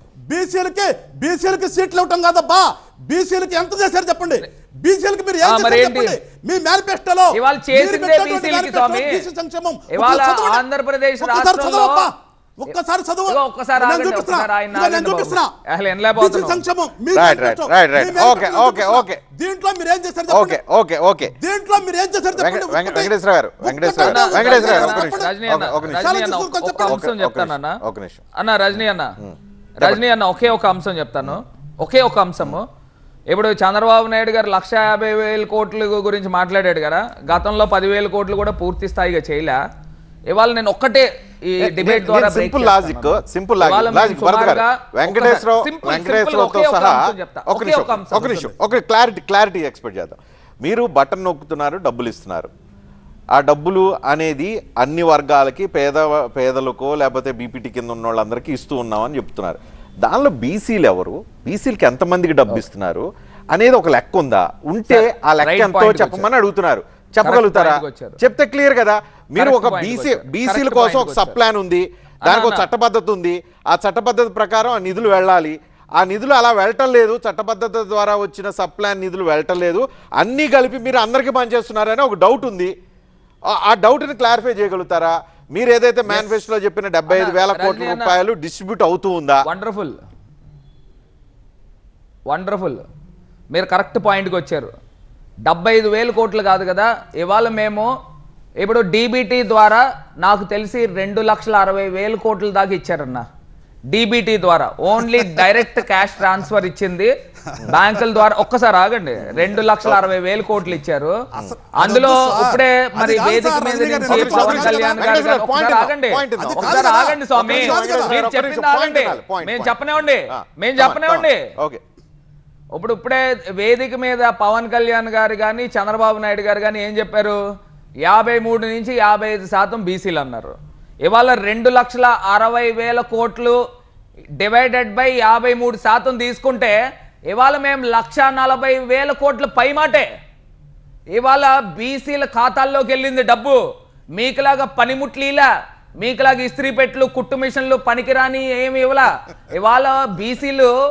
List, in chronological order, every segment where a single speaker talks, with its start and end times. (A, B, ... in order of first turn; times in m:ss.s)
0:00.3-0:10.6 A
0:05.4-0:06.2 B
0:07.4-0:09.2 B
0:09.9-0:12.1 B
0:11.2-0:15.5 A
0:13.3-0:16.6 B
0:16.2-0:20.6 A
0:17.2-0:19.2 C
0:20.3-0:21.4 C
0:21.4-0:25.3 A
0:22.4-0:26.1 C
0:24.0-0:27.8 B
0:25.9-0:27.0 A
0:26.9-0:28.2 C
0:28.4-0:29.1 B
0:28.7-0:30.0 C
0:29.8-0:32.6 B
0:33.3-0:39.6 B
0:40.3-0:48.5 B
0:41.6-0:52.5 C
0:53.4-1:22.7 C
1:04.9-1:06.3 B
1:07.2-1:08.2 B
1:09.4-1:11.4 B
1:12.2-1:12.7 B
1:23.5-1:29.4 C
1:26.1-1:26.4 B
1:27.1-1:28.2 B
1:29.4-1:30.0 B
1:32.3-1:32.8 B
1:33.5-1:34.7 B
1:35.4-1:37.9 B
1:38.6-1:43.3 B
1:43.9-1:47.1 B
1:45.1-1:45.4 A
1:47.7-1:51.2 B
1:49.2-1:50.0 C
1:51.3-1:55.1 A
1:51.8-2:01.4 B
1:54.1-1:56.8 C
1:56.4-1:58.2 A
1:57.4-2:01.8 C
2:02.7-2:07.4 B
2:08.0-2:13.6 B
2:14.4-2:16.8 B
2:17.3-2:20.1 B
2:21.1-2:23.6 B
2:24.2-2:25.5 B
2:26.0-2:30.7 B